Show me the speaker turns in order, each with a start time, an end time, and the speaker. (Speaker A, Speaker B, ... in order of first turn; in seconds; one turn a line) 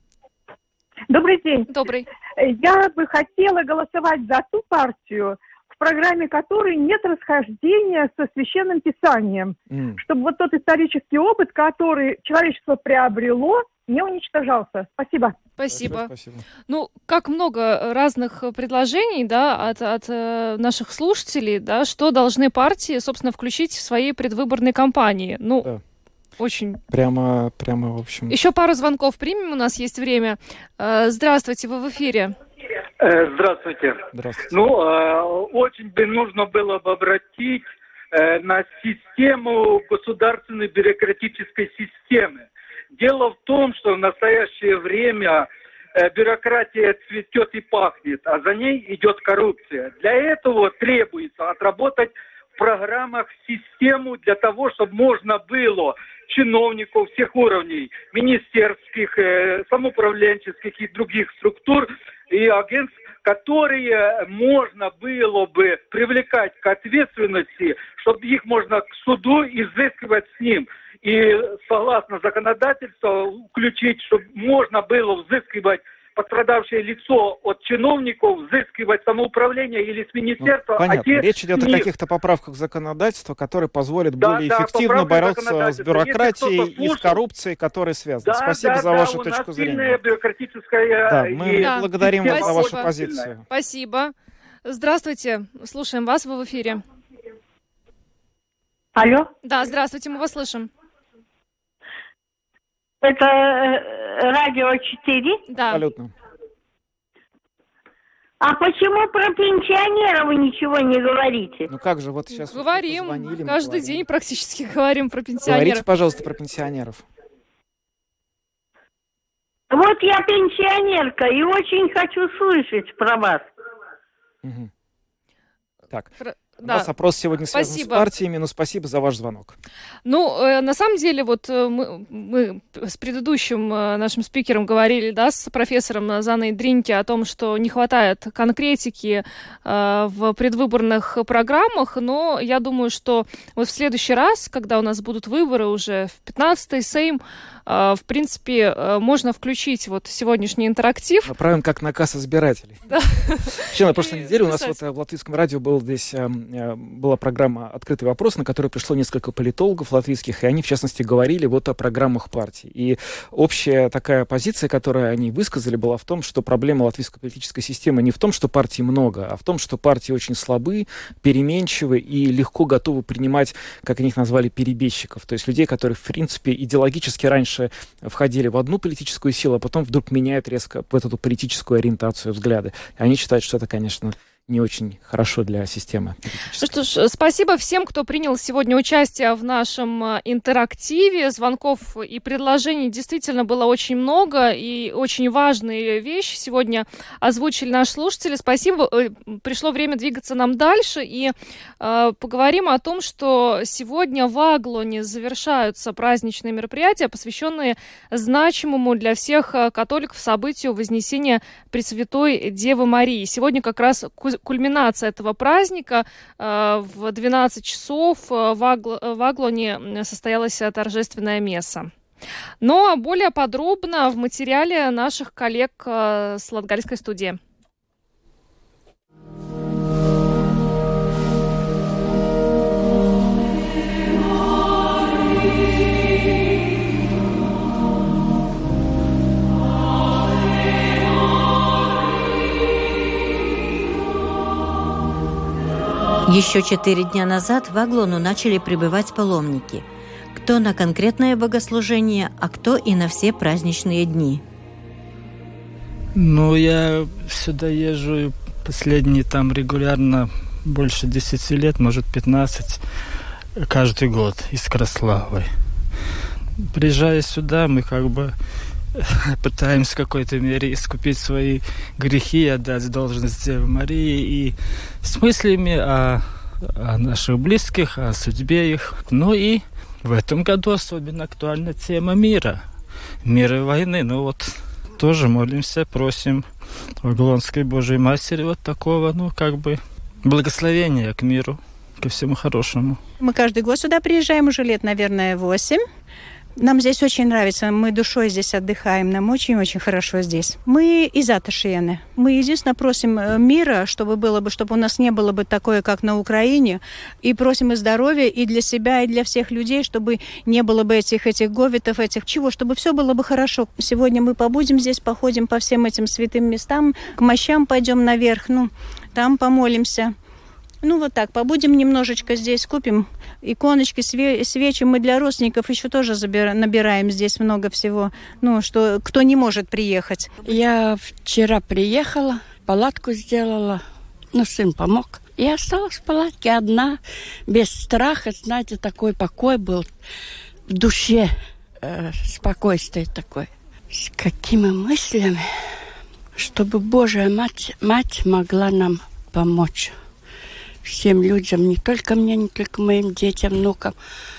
Speaker A: 1.1-1.6
Speaker B: 1.7-2.0
Speaker A: 2.5-9.5
Speaker C: 4.8-5.3
Speaker C: 9.1-9.5
Speaker D: 9.7-10.0
Speaker A: 10.1-15.3
Speaker B: 15.6-16.1
Speaker D: 15.7-16.4
Speaker B: 16.7-25.7
Speaker B: 26.4-26.8
Speaker D: 26.9-28.4
Speaker B: 28.3-32.3
Speaker E: 33.0-81.9
Speaker D: 34.1-34.6
Speaker D: 80.4-90.0
Speaker E: 84.2-87.2
Speaker E: 88.2-93.3
Speaker D: 91.1-93.4
Speaker B: 91.6-92.9
Speaker B: 93.5-94.1
Speaker B: 94.6-96.8
Speaker F: 99.0-99.3
Speaker B: 99.4-100.7
Speaker F: 103.0-105.4
Speaker B: 105.5-105.8
Speaker D: 105.7-106.1
Speaker F: 108.4-111.7
Speaker D: 111.7-114.0
Speaker B: 112.4-115.8
Speaker D: 115.4-117.0
Speaker F: 119.7-123.4
Speaker D: 124.4-124.7
Speaker D: 125.9-129.6
Speaker B: 126.2-126.9
Speaker B: 127.5-128.1
Speaker B: 130.0-151.3
Speaker D: 151.2-152.8
Speaker B: 152.9-154.8
Speaker D: 153.5-186.7
Speaker B: 186.6-221.9
Speaker B: 222.6-227.4
Speaker C: 246.2-254.4
Speaker G: 256.1-262.8
Speaker G: 263.6-265.5
Speaker G: 266.7-268.3
Speaker G: 268.9-282.7
Speaker G: 283.2-286.4
Speaker G: 287.0-293.0
Speaker H: 293.2-295.8
Speaker H: 296.6-320.1
Speaker H: 320.8-330.3
Speaker I: 330.4-339.9
Speaker I: 340.7-345.8
Speaker I: 346.3-349.9
Speaker I: 350.8-353.9